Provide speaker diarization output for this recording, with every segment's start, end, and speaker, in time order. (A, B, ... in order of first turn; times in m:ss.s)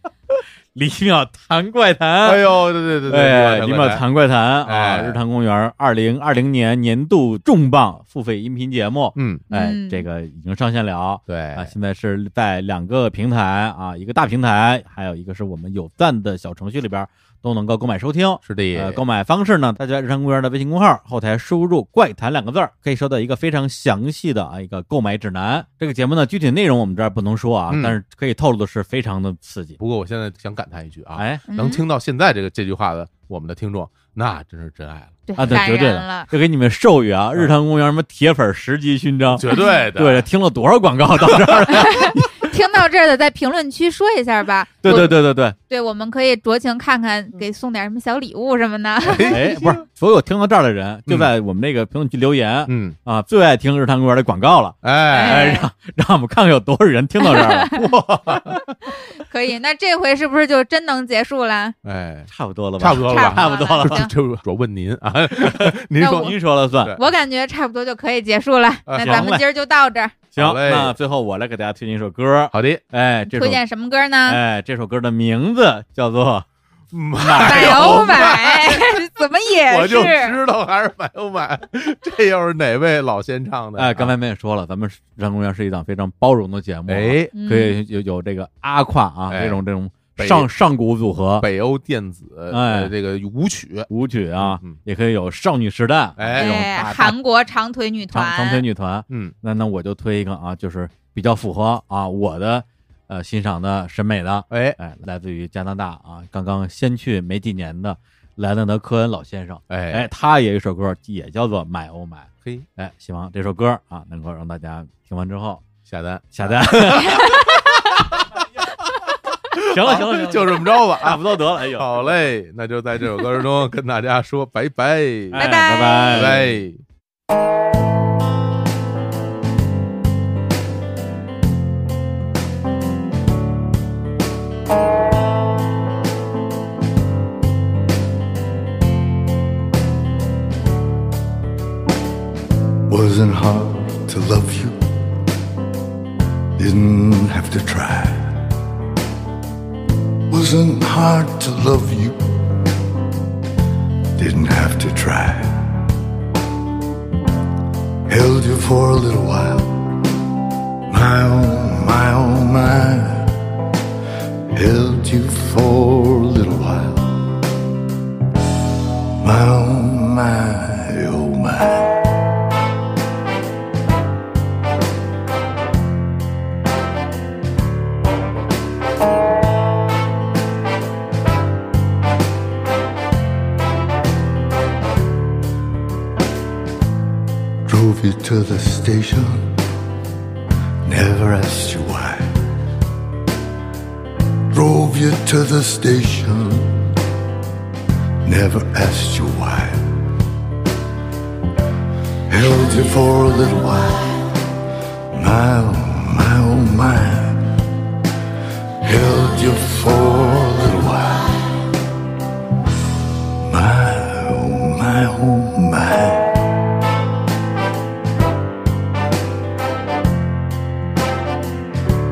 0:00.7-0:29.8 A
0:02.2-0:04.0 B
0:04.6-0:05.2 B
0:09.1-0:09.5 B
0:09.5-0:10.0 C
0:11.3-0:11.7 B
0:18.4-0:19.0 B
0:27.7-0:28.0 B
0:29.8-0:35.6 B
0:31.2-0:31.4 A
0:31.5-0:31.8 C
0:35.3-0:36.3 C
0:35.4-0:39.4 A
0:39.3-0:40.2 B
0:39.5-0:39.8 C
0:40.0-0:42.5 A
0:41.7-0:49.4 C
0:44.8-0:45.6 A
0:49.0-0:49.8 B
0:49.3-0:58.6 A
0:52.7-0:53.0 B
0:54.8-0:55.6 B
0:55.1-0:55.7 C
0:57.2-0:57.9 C
0:58.1-0:58.6 B
0:58.9-1:01.8 C
1:01.8-1:07.0 B
1:02.3-1:04.0 A
1:03.0-1:04.1 C
1:05.4-1:07.0 A
1:06.0-1:06.3 C
1:06.9-1:10.2 C
1:08.9-1:09.4 B
1:09.0-1:09.4 A
1:10.4-1:11.0 B
1:10.4-1:13.6 A
1:12.5-1:12.8 B
1:13.3-1:14.4 C
1:14.3-1:16.4 A
1:16.9-1:18.9 B
1:17.2-1:18.3 A
1:17.3-1:20.3 C
1:19.7-1:24.1 B
1:23.8-1:31.5 A
1:26.9-1:27.3 B
1:27.3-1:27.8 C
1:29.3-1:29.6 B
1:30.2-1:30.5 B
1:31.4-1:34.8 B
1:32.5-1:32.9 A
1:33.9-1:37.2 A
1:36.2-1:36.5 B
1:36.4-1:38.6 C
1:38.1-1:55.6 A
1:39.1-1:39.3 B
1:44.5-1:44.8 B
1:49.7-1:50.1 B
1:55.8-1:58.2 B
1:56.3-1:57.5 A
1:59.5-2:05.4 B
1:59.6-2:02.1 A
2:05.3-2:06.3 C
2:05.3-2:06.5 A
2:06.1-2:06.8 B
2:22.9-2:24.8 D
2:26.6-2:28.4 D
2:30.3-2:32.2 D
2:34.2-2:35.8 D
2:38.1-2:39.9 D
2:40.9-2:43.3 D
2:44.5-2:47.3 D
2:49.2-2:52.1 D
3:07.6-3:09.4 D
3:10.8-3:12.4 D
3:14.5-3:16.7 D
3:18.2-3:19.9 D
3:22.3-3:24.4 D
3:25.1-3:27.5 D
3:28.8-3:31.5 D
3:33.4-3:36.5 D